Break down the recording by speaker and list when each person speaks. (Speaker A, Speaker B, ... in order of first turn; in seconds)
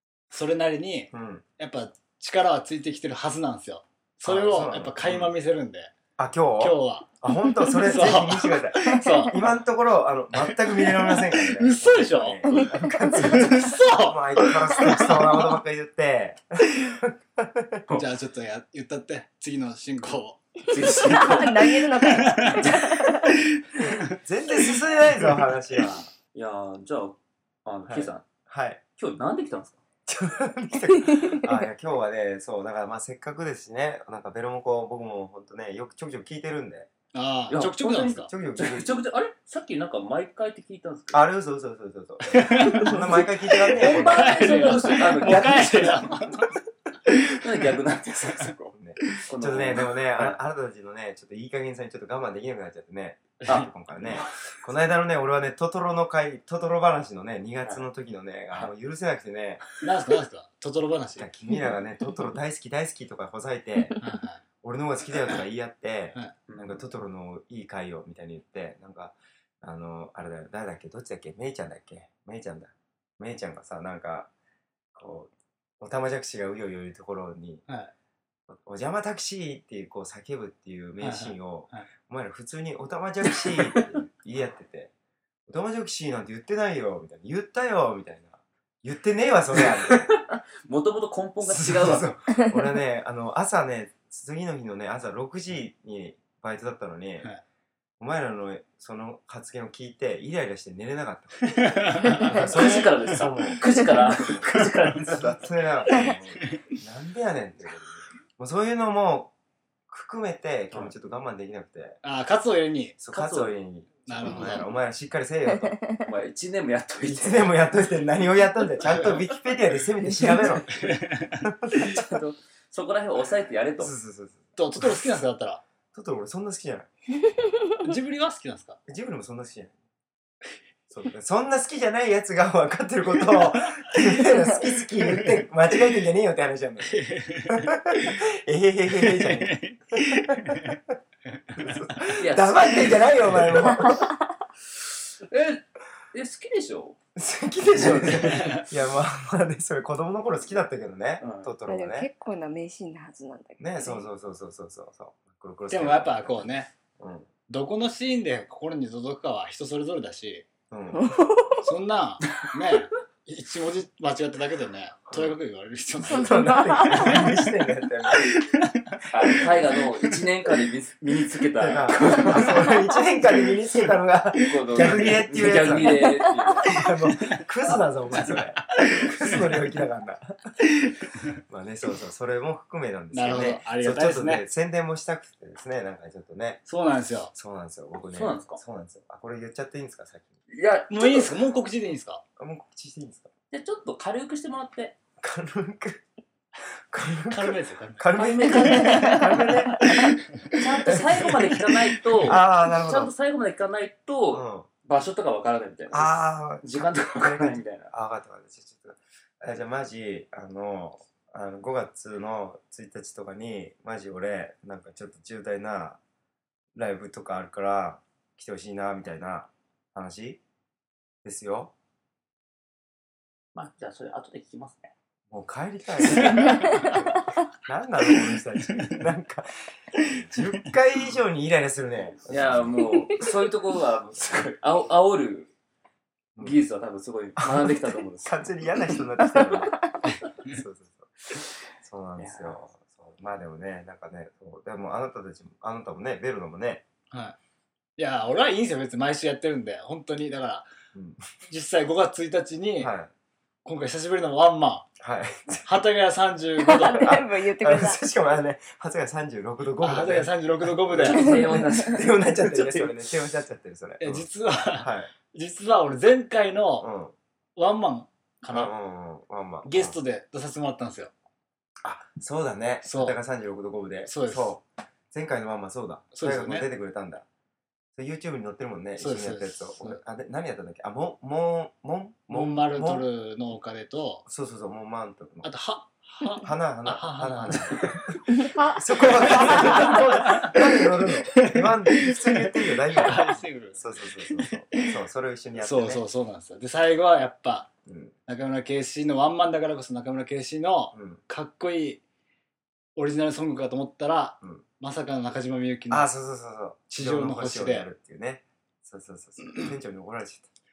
Speaker A: 0.3-5.9, 6.6-9.4, 10.3-15.5, 17.9-22.7, 23.3-24.0, 37.1-38.3, 42.3-46.5, 47.1-47.4, 53.5-54.3, 59.8-61.3, 64.0-64.4, 81.0-81.9, 101.6-103.1, 104.4-105.2, 112.0-113.0, 114.1-114.7, 120.7-121.5, 124.6-125.6, 127.8-128.8, 136.9-138.2, 138.9-140.8, 141.3-141.9, 148.0-148.7, 155.7-156.7, 157.5-160.5, 161.6-167.4, 168.2-169.0, 174.8-175.9, 178.2-179.5, 183.1-184.4, 186.7-187.3, 190.9-192.2, 197.3-200.4, 240.1-240.6, 247.1-247.4, 248.0-250.7, 251.5-252.9, 253.7-254.9, 255.7-257.1, 259.8-261.4, 264.0-266.9, 267.6-268.7, 269.6-271.1, 272.8-273.2, 274.1-274.5, 276.1-276.7, 279.0-280.0, 282.3-284.3, 285.4-288.4, 289.0-294.8, 295.6-297.7, 298.3-302.0, 303.0-306.1, 306.9-307.9
Speaker B: 1.1-1.4, 4.2-5.3, 6.2-18.0, 24.0-26.1, 27.9-28.8, 30.1-36.9, 38.1-39.0, 41.1-45.7, 48.7-59.6, 61.2-64.0, 64.6-74.3, 75.0-77.7, 78.5-84.9, 85.5-90.1, 91.4-97.3, 98.0-104.5, 105.1-109.3, 109.9-112.0, 113.0-115.8, 117.0-120.9, 121.4-122.0, 123.8-125.2, 125.9-126.9, 128.9-129.8, 130.9-140.9, 141.6-144.1, 147.2-152.1, 153.6-157.3, 160.7-161.3, 165.1-165.4, 166.0-168.4, 171.6-180.5, 181.5-186.7, 187.3-190.3, 192.4-193.3, 195.2-196.1, 196.9-200.1, 200.9-201.6, 202.2-203.1, 204.3-204.7, 205.9-216.0, 216.8-220.4, 221.2-221.7, 225.3-227.0, 227.6-233.2, 236.3-236.6, 237.4-241.1, 241.8-246.8, 250.9-251.2, 252.8-253.1, 255.0-255.8, 256.6-265.1, 266.8-267.1, 268.5-270.0, 271.8-277.2, 277.9-283.1, 284.3-285.5, 286.4-296.0, 297.9-298.1, 300.9-301.2, 305.9-310.5
Speaker C: 8.9-9.3, 12.5-13.5, 20.7-23.3, 31.1-31.5, 143.8-144.1, 151.7-154.1, 160.9-161.6, 166.2-167.2, 256.6-258.0, 261.2-261.7, 288.6-288.8, 289.4-289.9
Speaker D: 20.7-21.6, 26.3-28.3, 29.0-29.8, 37.5-41.2, 43.8-46.1, 47.3-48.7, 49.3-50.4, 53.4-53.7, 66.5-66.8, 89.9-92.1, 102.1-105.4, 113.1-113.5, 114.2-114.6, 116.0-117.7, 121.7-123.9, 142.2-143.1, 145.2-147.0, 147.8-148.6, 151.2-151.5, 169.1-172.7, 174.4-176.7, 183.3-183.6, 188.1-188.6, 190.5-191.4, 193.5-195.0, 198.1-199.2, 200.6-207.9, 223.6-224.9, 232.3-235.5, 236.4-238.5, 242.2-242.6, 260.9-263.0